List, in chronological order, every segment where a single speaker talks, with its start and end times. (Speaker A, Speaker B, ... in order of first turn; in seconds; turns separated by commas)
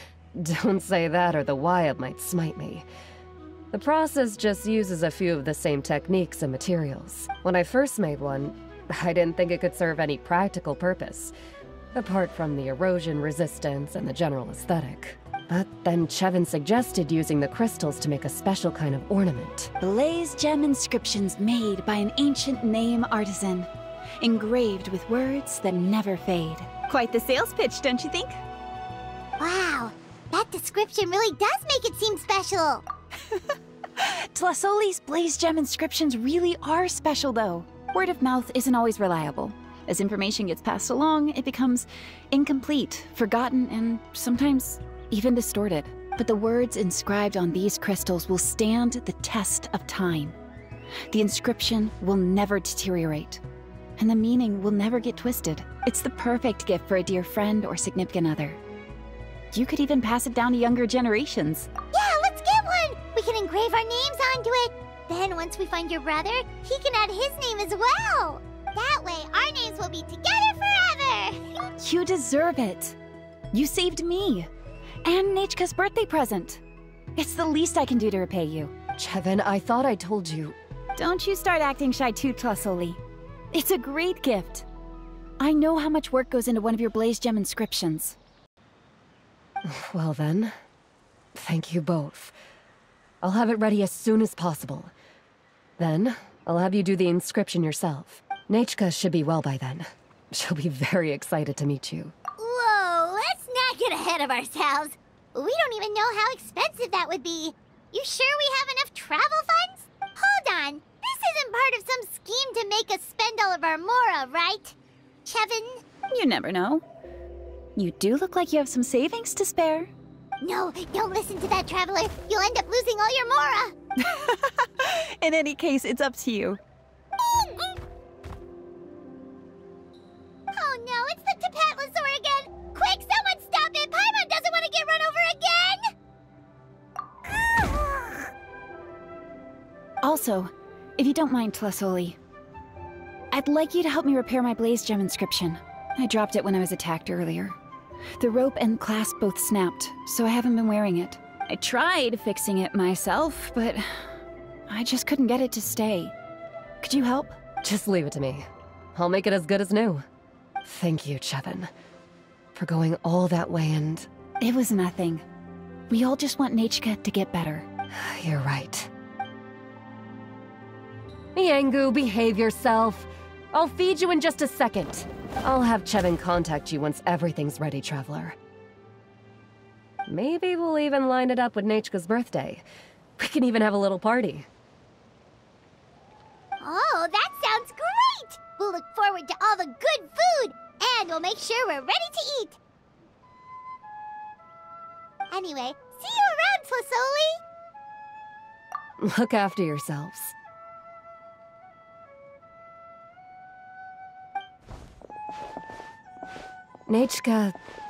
Speaker A: 0.3-2.9, Speaker A: 3.7-11.3, Speaker A: 11.9-19.7, Speaker B: 19.8-23.7, Speaker B: 24.2-28.4, Speaker C: 29.4-32.8, Speaker B: 33.3-50.3, Speaker B: 51.1-53.4, Speaker B: 54.0-58.6, Speaker B: 59.5-61.7, Speaker C: 61.9-71.6, Speaker B: 71.8-73.0, Speaker B: 73.5-74.5, Speaker B: 75.0-76.6, Speaker B: 77.2-78.7, Speaker A: 79.0-80.6, Speaker B: 81.0-83.0, Speaker B: 83.5-84.7, Speaker B: 85.4-88.2, Speaker A: 89.6-90.5, Speaker A: 91.3-92.3, Speaker A: 93.2-94.9, Speaker A: 95.8-102.1, Speaker C: 102.4-115.8, Speaker B: 116.1-116.8, Speaker B: 117.8-119.9, Speaker C: 120.4-123.7, Speaker B: 124.0-126.6, Speaker C: 127.2-127.7, Speaker C: 130.5-135.8, Speaker B: 140.0-142.2, Speaker B: 143.3-147.6, Speaker B: 148.2-154.1, Speaker B: 154.7-156.1, Speaker B: 156.8-157.3, Speaker A: 157.6-160.0, Speaker A: 160.6-161.7, Speaker A: 162.5-164.1, Speaker B: 164.4-165.2, Speaker B: 165.9-167.7, Speaker A: 167.9-168.9, Speaker A: 171.3-178.3, Speaker A: 180.1-182.6, Speaker A: 183.2-184.5, Speaker C: 186.6-192.6, Speaker C: 195.3-197.4, Speaker A: 199.0-200.3, Speaker A: 206.9-207.6